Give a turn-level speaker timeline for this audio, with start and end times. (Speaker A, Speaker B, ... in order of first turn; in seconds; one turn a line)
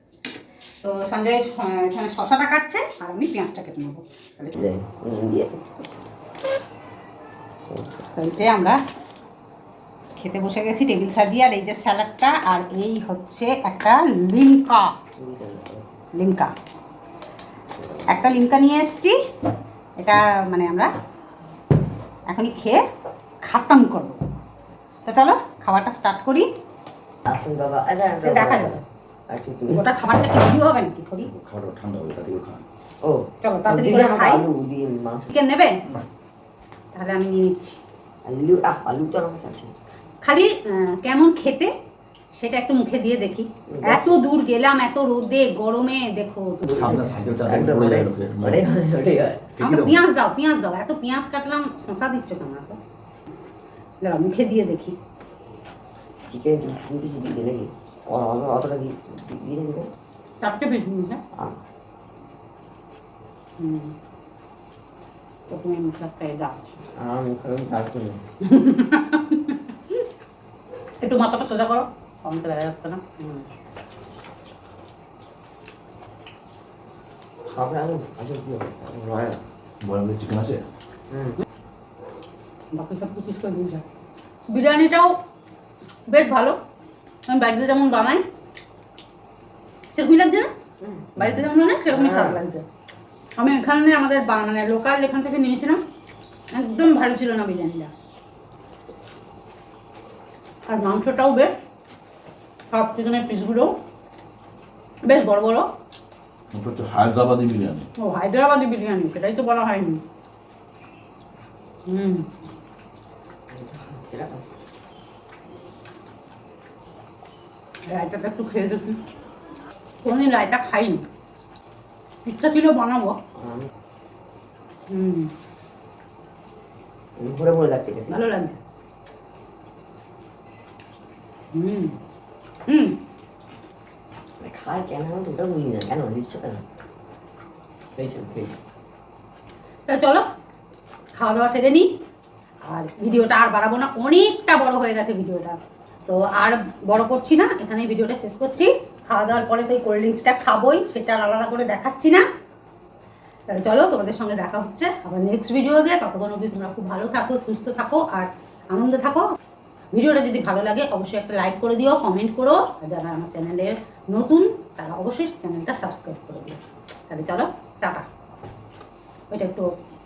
Speaker A: 0.8-4.6
Speaker B: 4.5-5.6
Speaker B: 7.7-8.1
Speaker A: 8.2-8.8
Speaker A: 10.2-14.9
Speaker B: 15.2-15.8
Speaker A: 16.2-16.5
Speaker B: 17.8-18.3
Speaker A: 18.1-19.2
Speaker A: 20.0-20.9
Speaker A: 22.3-22.8
Speaker A: 23.4-24.2
Speaker A: 25.1-26.5
Speaker B: 27.2-29.9
Speaker A: 28.2-28.8
Speaker A: 29.7-31.3
Speaker C: 31.2-32.6
Speaker B: 33.0-35.3
Speaker A: 33.4-34.4
Speaker A: 35.3-35.8
Speaker A: 36.9-37.8
Speaker B: 38.2-39.7
Speaker A: 40.2-41.7
Speaker A: 42.4-46.9
Speaker B: 43.7-44.1
Speaker B: 46.6-49.5
Speaker C: 46.7-48.7
Speaker C: 49.6-50.0
Speaker A: 49.6-52.8
Speaker A: 54.0-55.0
Speaker B: 56.3-59.9
Speaker A: 60.4-61.2
Speaker A: 63.6-63.9
Speaker A: 65.5-66.8
Speaker B: 67.0-68.2
Speaker A: 68.4-69.6
Speaker A: 71.0-73.5
Speaker B: 77.5-79.4
Speaker C: 79.8-80.6
Speaker B: 81.1-81.4
Speaker A: 82.7-83.8
Speaker A: 84.5-85.1
Speaker A: 86.1-86.6
Speaker A: 87.3-88.2
Speaker A: 89.9-90.5
Speaker B: 90.8-92.4
Speaker A: 91.2-92.6
Speaker A: 93.4-95.8
Speaker A: 96.5-97.9
Speaker A: 100.7-101.5
Speaker A: 102.7-103.7
Speaker A: 105.1-105.7
Speaker C: 106.5-107.9
Speaker A: 108.0-110.0
Speaker A: 111.9-112.4
Speaker B: 113.5-114.5
Speaker A: 117.9-119.0
Speaker A: 120.0-121.0
Speaker A: 122.2-123.2
Speaker B: 123.3-123.7
Speaker A: 124.9-125.3
Speaker B: 127.2-128.2
Speaker A: 128.1-128.6
Speaker A: 131.5-132.0
Speaker A: 132.7-132.9
Speaker B: 134.4-136.6
Speaker B: 137.9-138.6
Speaker A: 139.9-140.2
Speaker A: 141.2-141.9
Speaker A: 142.7-152.2
Speaker A: 153.5-159.3
Speaker A: 159.9-168.1
Speaker A: 169.3-169.7